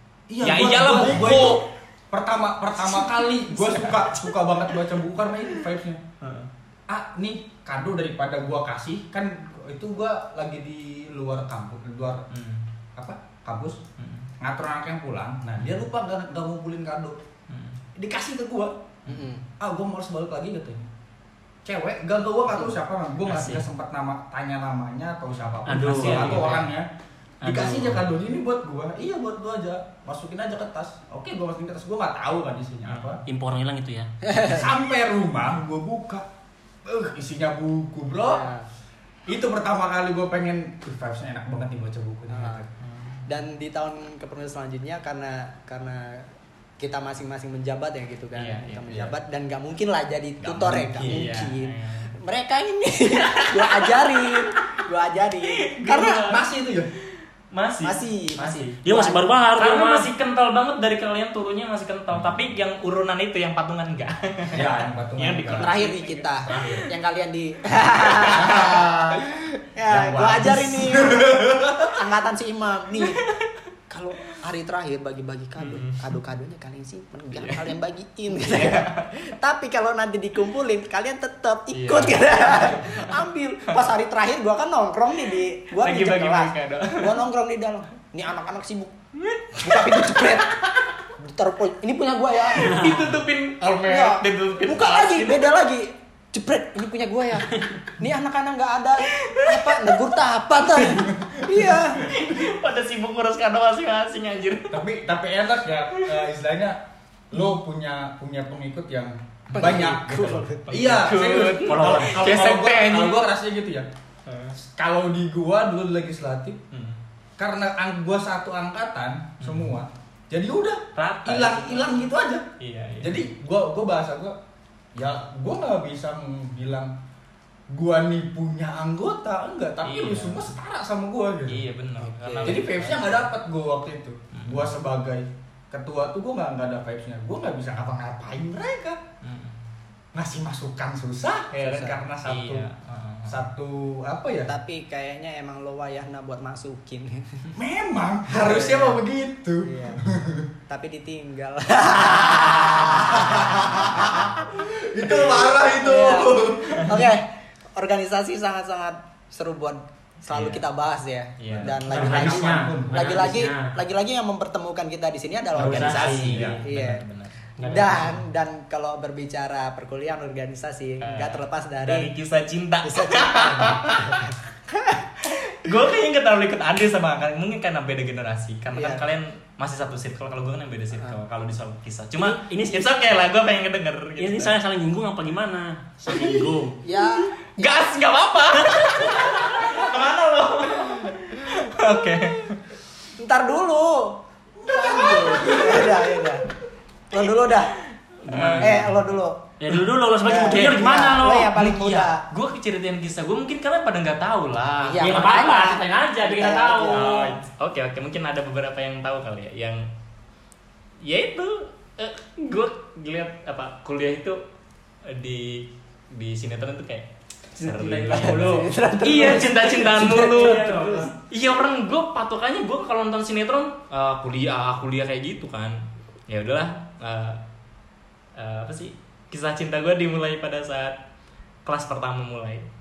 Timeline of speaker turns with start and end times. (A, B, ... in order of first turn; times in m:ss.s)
0:00.3-0:06.0 A
0:00.4-0:01.7 B
0:03.7-0:04.2 B
0:06.2-0:06.5 B
0:06.9-0:12.2 A
0:12.3-0:12.6 B
0:13.0-0:13.8 A
0:14.0-0:14.3 B
0:14.4-0:17.2 A
0:17.5-0:17.8 B
0:18.0-0:18.8 A
0:19.1-0:19.3 B
0:19.1-0:19.4 C
0:19.6-0:20.9 A
0:21.6-0:26.9 A
0:23.3-0:23.7 B
0:25.7-0:26.7 D
0:25.7-0:26.7 B
0:27.4-0:28.0 D
0:27.4-0:33.2 A
0:32.9-0:33.2 B
0:33.3-0:34.1 D
0:34.3-0:34.6 C
0:34.4-0:36.2 A
0:36.8-0:38.5 A
0:38.2-0:38.7 C
0:39.3-0:42.7 A
0:42.3-0:42.7 C
0:42.8-0:43.3 B
0:43.3-0:56.3 C
0:48.4-0:49.1 B
0:50.4-0:51.2 A
0:50.9-0:52.2 B
0:53.2-0:54.7 B
0:55.4-0:56.5 B
0:56.2-0:56.9 A
0:57.5-0:58.8 B
0:57.8-0:59.2 C
0:58.8-1:00.1 D
0:59.6-1:06.5 B
1:04.5-1:05.8 A
1:05.5-1:13.3 C
1:06.4-1:06.9 A
1:08.3-1:09.3 A
1:09.9-1:12.0 A
1:13.9-1:29.0 C
1:15.6-1:16.0 B
1:17.3-1:17.7 B
1:18.3-1:19.3 B
1:21.7-1:23.8 B
1:25.8-1:27.2 B
1:29.2-1:30.4 B
1:29.6-1:33.2 C
1:32.5-1:35.5 B
1:33.8-1:42.1 C
1:39.2-1:40.1 B
1:42.0-1:44.8 B
1:44.7-1:53.9 A
1:45.9-1:46.3 B
1:49.5-1:53.3 B
1:49.5-1:50.9 C
1:51.4-1:52.3 D
1:54.3-1:54.6 B
1:54.6-1:56.6 A
1:56.7-1:57.0 B
1:57.4-2:02.5 A
1:59.4-1:59.7 B
2:01.0-2:02.0 B
2:02.6-2:03.3 B
2:03.0-2:04.4 A
2:05.0-2:06.9 A
2:07.7-2:11.6 A
2:09.8-2:10.5 B
2:11.5-2:13.3 B
2:12.0-2:12.7 C
2:12.4-2:19.0 A
2:14.3-2:14.7 B
2:19.2-2:19.6 B
2:20.1-2:22.7 A
2:21.6-2:22.0 C
2:22.2-2:23.4 B
2:23.3-2:24.5 A
2:24.4-2:27.5 C
2:27.5-2:30.5 A
2:28.3-2:29.0 C
2:29.6-2:30.1 C
2:30.7-2:47.0 C
2:32.8-2:37.1 A
2:40.3-2:40.6 B
2:41.4-2:42.0 B
2:41.5-2:43.1 A
2:41.9-2:43.8 D
2:45.6-2:47.5 B
2:45.6-2:46.5 D
2:46.3-2:46.6 A
2:47.6-2:48.2 D
2:47.6-2:52.1 C
2:51.0-2:54.2 B
2:52.8-2:55.0 C
2:55.3-3:04.5 B
2:58.7-2:59.0 C
3:02.2-3:02.9 D
3:04.2-3:06.8 D
3:06.8-3:07.8 C
3:07.6-3:12.6 B
3:13.2-3:16.5 C
3:14.6-3:15.9 A
3:17.1-3:17.8 C
3:18.2-3:19.1 B
3:18.3-3:18.8 D
3:18.4-3:19.4 C
3:19.6-3:21.5 D
3:20.2-3:22.2 C
3:20.4-3:25.5 B
3:24.8-3:27.3 C
3:25.0-3:27.4 D
3:26.9-3:29.9 B
3:31.0-3:34.4 B
3:35.0-3:47.4 B
3:37.6-3:38.8 D
3:38.1-3:41.0 C
3:40.2-3:41.1 D
3:48.4-3:51.0 B
3:51.6-3:52.7 B